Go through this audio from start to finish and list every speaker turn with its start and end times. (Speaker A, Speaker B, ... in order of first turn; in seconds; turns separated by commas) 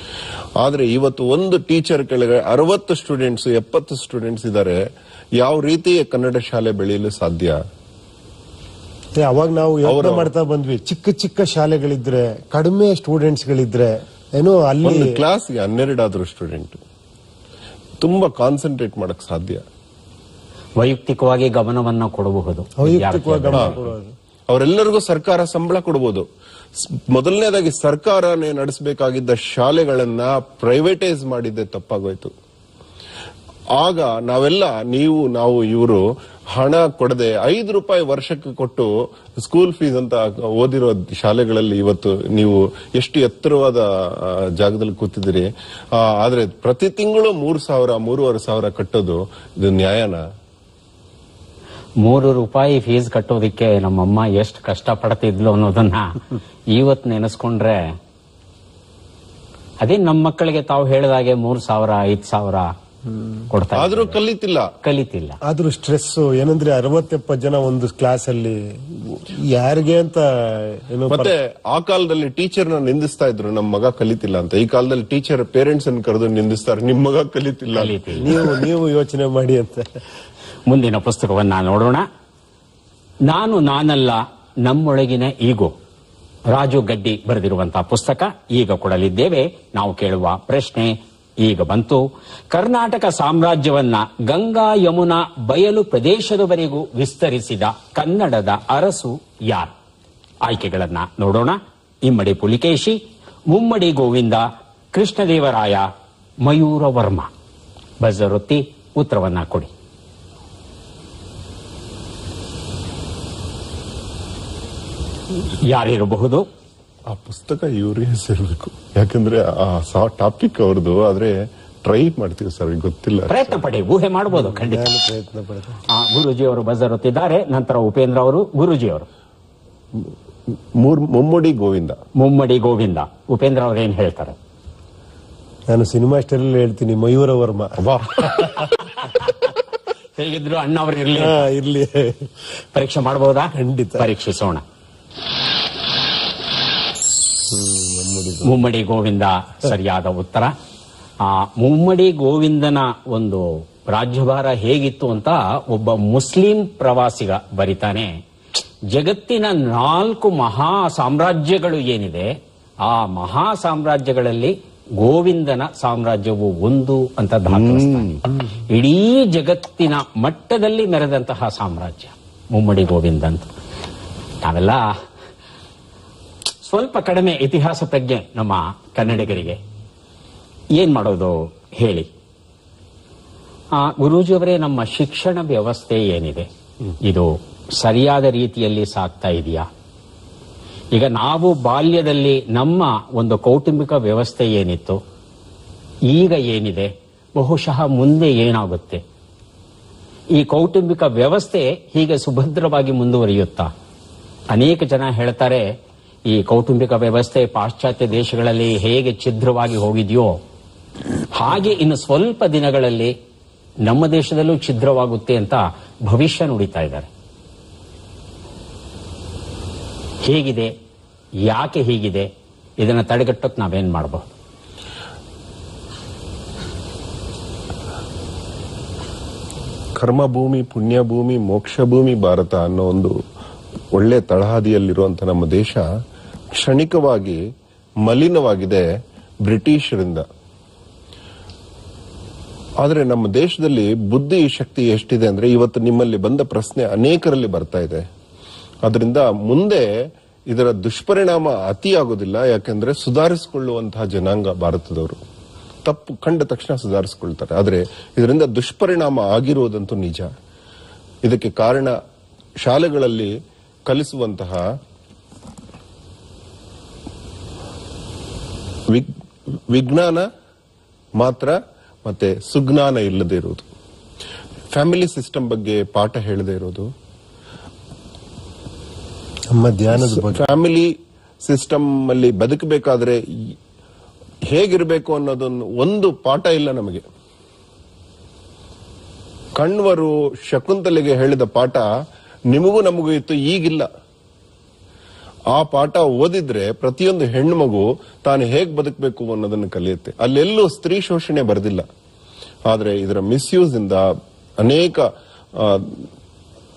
Speaker A: 0.6-4.8, Speaker A: 5.4-7.6, Speaker B: 9.2-15.2, Speaker A: 9.9-10.3, Speaker A: 14.8-16.8, Speaker A: 18.0-19.6, Speaker C: 20.8-23.9, Speaker B: 22.8-24.1, Speaker A: 24.5-26.3, Speaker A: 26.8-32.3, Speaker A: 33.8-50.2, Speaker C: 52.0-56.2, Speaker C: 56.7-57.9, Speaker C: 59.8-62.7, Speaker C: 63.5-64.2, Speaker A: 63.8-64.7, Speaker C: 64.8-65.4, Speaker B: 65.4-71.3, Speaker A: 71.1-78.6, Speaker C: 77.8-78.3, Speaker B: 78.2-79.9, Speaker C: 80.7-82.1, Speaker C: 83.3-85.7, Speaker C: 86.5-99.7, Speaker C: 100.4-103.0, Speaker C: 103.5-105.9, Speaker C: 106.4-107.3, Speaker C: 108.0-109.7, Speaker C: 115.3-116.5, Speaker A: 117.1-123.6, Speaker C: 123.3-124.9, Speaker B: 124.3-125.8, Speaker C: 125.9-129.1, Speaker A: 130.7-132.0, Speaker C: 132.2-134.4, Speaker B: 135.7-138.6, Speaker A: 137.8-138.7, Speaker C: 138.7-139.5, Speaker C: 140.2-141.5, Speaker B: 141.2-142.3, Speaker C: 142.7-144.6, Speaker B: 143.6-144.1, Speaker B: 147.5-148.6, Speaker C: 148.4-150.5, Speaker C: 151.2-158.2, Speaker C: 158.9-173.5, Speaker A: 167.5-168.2, Speaker C: 174.4-174.9, Speaker C: 176.6-179.6, Speaker C: 180.7-182.1, Speaker C: 183.7-186.5, Speaker C: 187.0-189.7, Speaker C: 190.9-195.0, Speaker C: 196.1-199.0, Speaker C: 200.3-203.7, Speaker C: 204.5-205.7, Speaker C: 206.3-210.4, Speaker C: 211.3-213.1, Speaker C: 213.8-217.1, Speaker C: 220.2-220.7, Speaker C: 221.4-222.3, Speaker C: 222.8-224.3, Speaker A: 230.0-233.2, Speaker A: 233.9-235.9, Speaker A: 236.5-237.4, Speaker A: 238.0-238.9, Speaker A: 239.4-240.2, Speaker A: 242.8-248.1, Speaker A: 248.8-255.2, Speaker A: 255.8-260.3, Speaker A: 261.2-262.0, Speaker A: 262.6-263.3, Speaker A: 263.9-264.6, Speaker A: 269.7-270.3, Speaker A: 271.2-273.7, Speaker A: 274.7-276.9, Speaker B: 279.5-280.4, Speaker A: 279.9-280.9, Speaker A: 281.4-283.6, Speaker A: 284.4-287.0, Speaker A: 289.6-291.9, Speaker A: 292.5-293.9, Speaker A: 295.5-301.9, Speaker A: 302.7-304.1, Speaker A: 304.6-306.1